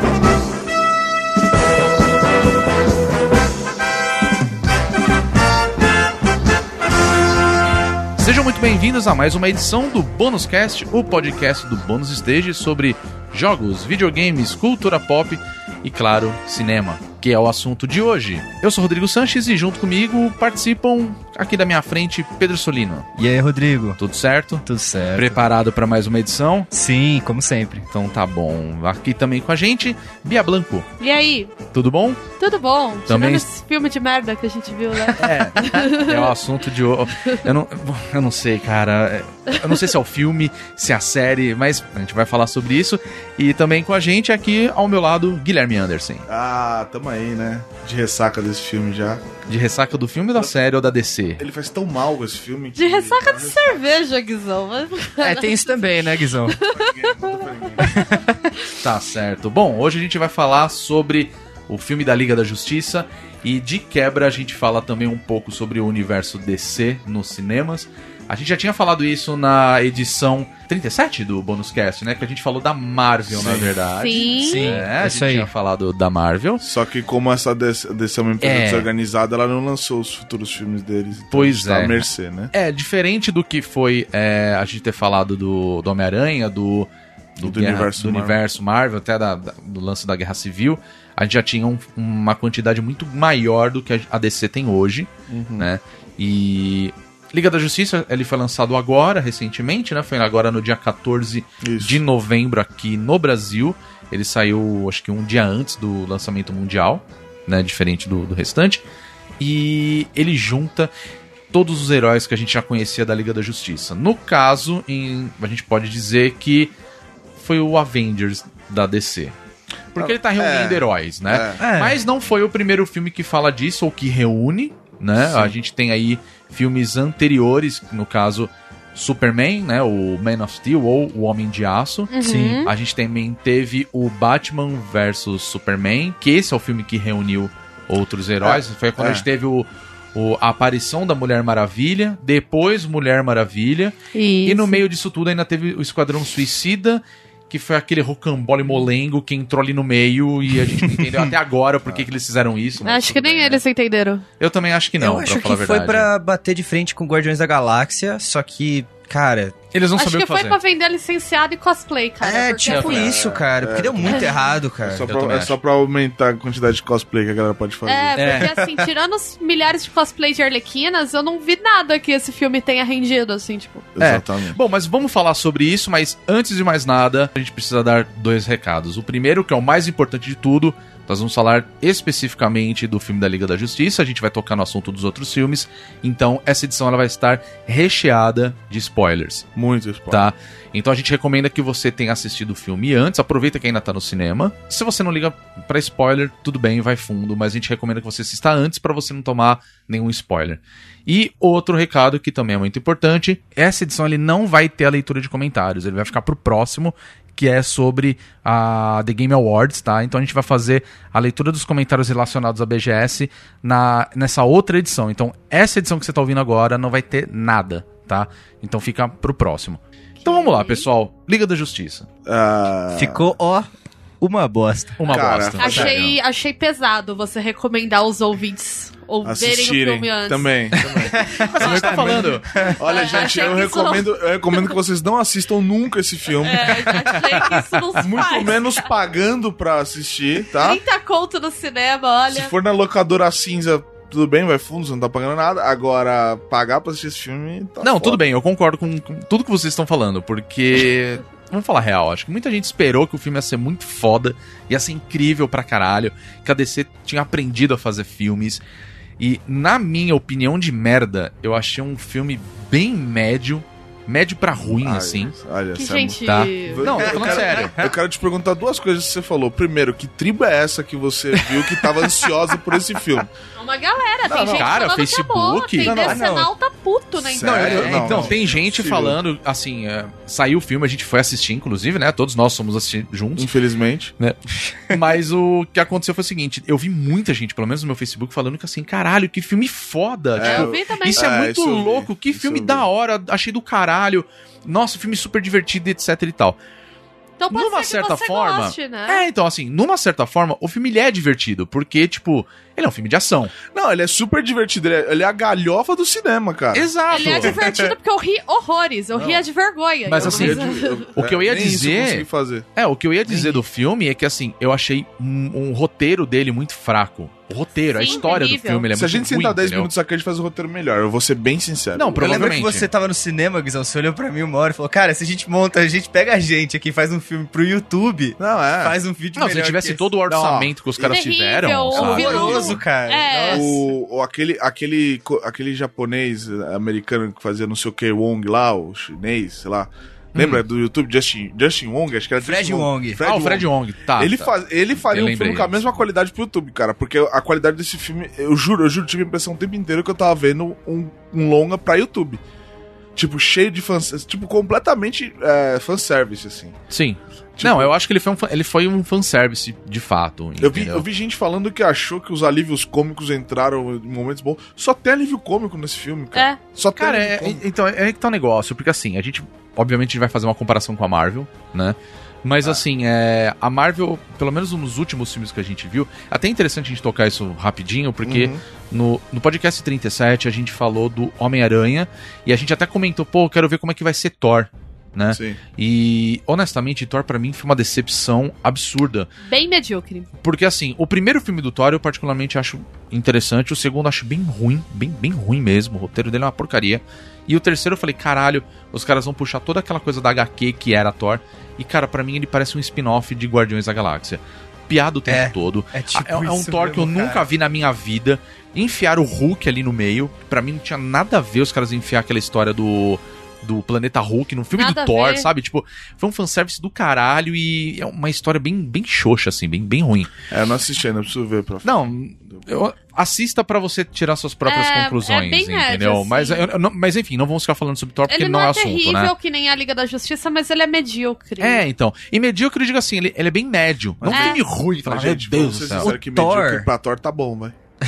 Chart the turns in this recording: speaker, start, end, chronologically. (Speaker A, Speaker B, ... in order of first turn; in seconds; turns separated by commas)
Speaker A: 8.2-23.1, Speaker B: 23.2-24.0, Speaker A: 24.0-24.6, Speaker B: 24.6-25.4, Speaker A: 25.1-26.7, Speaker B: 26.7-27.9, Speaker A: 27.9-30.9, Speaker C: 31.0-31.5, Speaker A: 31.7-32.2, Speaker C: 32.4-36.3, Speaker A: 33.1-33.5, Speaker B: 35.1-35.9, Speaker A: 35.2-46.2, Speaker C: 39.5-39.8, Speaker D: 46.3-49.2, Speaker A: 49.5-51.4, Speaker D: 51.4-53.8, Speaker C: 52.7-55.7, Speaker B: 55.2-56.6, Speaker C: 56.5-57.7, Speaker D: 56.7-58.0, Speaker B: 57.8-58.5, Speaker A: 58.8-76.6, Speaker D: 73.3-73.7, Speaker C: 74.0-74.8, Speaker B: 74.4-75.5, Speaker D: 76.6-82.5, Speaker A: 78.4-78.9, Speaker A: 81.3-108.8, Speaker D: 87.4-88.4, Speaker D: 95.3-95.7, Speaker D: 101.6-102.0, Speaker A: 109.4-110.9, Speaker A: 111.5-116.7, Speaker A: 117.3-119.3, Speaker A: 119.9-153.6, Speaker D: 120.0-121.6, Speaker B: 121.6-122.0, Speaker D: 125.2-125.5, Speaker C: 132.1-132.7, Speaker B: 132.2-132.7, Speaker D: 138.4-139.2, Speaker C: 144.1-144.8, Speaker B: 150.7-151.3, Speaker C: 152.8-154.2, Speaker A: 154.4-156.1, Speaker B: 155.0-159.6, Speaker A: 159.7-160.6, Speaker C: 159.9-163.1, Speaker B: 162.2-165.1, Speaker A: 162.7-163.1, Speaker D: 162.8-168.4, Speaker C: 164.1-164.4, Speaker A: 165.0-165.6, Speaker C: 167.8-173.9, Speaker A: 168.2-168.5, Speaker B: 168.2-168.9, Speaker D: 173.9-174.6, Speaker A: 174.0-189.5, Speaker D: 189.5-190.3, Speaker A: 190.1-222.1, Speaker C: 220.2-220.9, Speaker D: 222.2-223.3, Speaker B: 222.9-223.7, Speaker B: 224.2-225.0, Speaker A: 225.0-226.2, Speaker D: 225.1-226.0, Speaker C: 225.6-230.5, Speaker D: 229.2-232.2, Speaker A: 230.8-232.4, Speaker B: 231.0-233.0, Speaker C: 232.6-234.8, Speaker D: 232.8-240.8, Speaker C: 236.4-238.9, Speaker C: 240.5-242.5, Speaker D: 242.3-248.2, Speaker A: 247.8-258.6, Speaker A: 259.2-265.3, Speaker D: 264.5-273.3, Speaker C: 265.7-266.8, Speaker A: 266.2-267.9, Speaker B: 266.8-267.8, Speaker C: 273.6-278.2, Speaker D: 274.2-274.7, Speaker A: 274.5-276.0, Speaker D: 275.8-276.2, Speaker B: 275.9-276.5, Speaker D: 277.2-279.2, Speaker A: 277.4-283.5, Speaker B: 277.7-278.3, Speaker D: 283.4-284.1, Speaker A: 284.2-296.6, Speaker D: 290.3-292.9, Speaker C: 290.4-291.2, Speaker C: 297.4-299.2, Speaker A: 297.5-303.5, Speaker D: 303.7-307.5, Speaker A: 306.7-307.6, Speaker C: 307.1-311.1, Speaker D: 309.1-309.4, Speaker A: 310.1-319.9, Speaker D: 310.2-312.7, Speaker B: 313.3-313.6, Speaker C: 317.9-318.9, Speaker D: 318.9-322.5, Speaker A: 321.9-322.9, Speaker B: 322.1-330.1, Speaker D: 328.4-328.9, Speaker A: 329.4-332.8, Speaker D: 330.3-331.2, Speaker C: 331.1-333.8, Speaker B: 331.9-333.8, Speaker D: 333.5-352.4, Speaker A: 340.3-340.6, Speaker B: 342.4-343.2, Speaker A: 343.2-345.9, Speaker D: 353.1-356.8, Speaker A: 356.9-361.1, Speaker D: 357.6-357.9, Speaker D: 360.6-367.6, Speaker C: 366.3-366.6, Speaker A: 366.9-389.3, Speaker D: 378.2-378.6, Speaker D: 385.3-385.6, Speaker C: 389.4-390.3, Speaker A: 390.4-420.3, Speaker B: 405.3-407.4, Speaker C: 414.7-415.5, Speaker D: 420.5-422.0, Speaker A: 421.8-429.3, Speaker C: 424.6-426.7, Speaker C: 428.3-431.8, Speaker A: 431.6-436.2, Speaker D: 434.2-437.7, Speaker C: 434.3-434.6, Speaker B: 435.9-436.9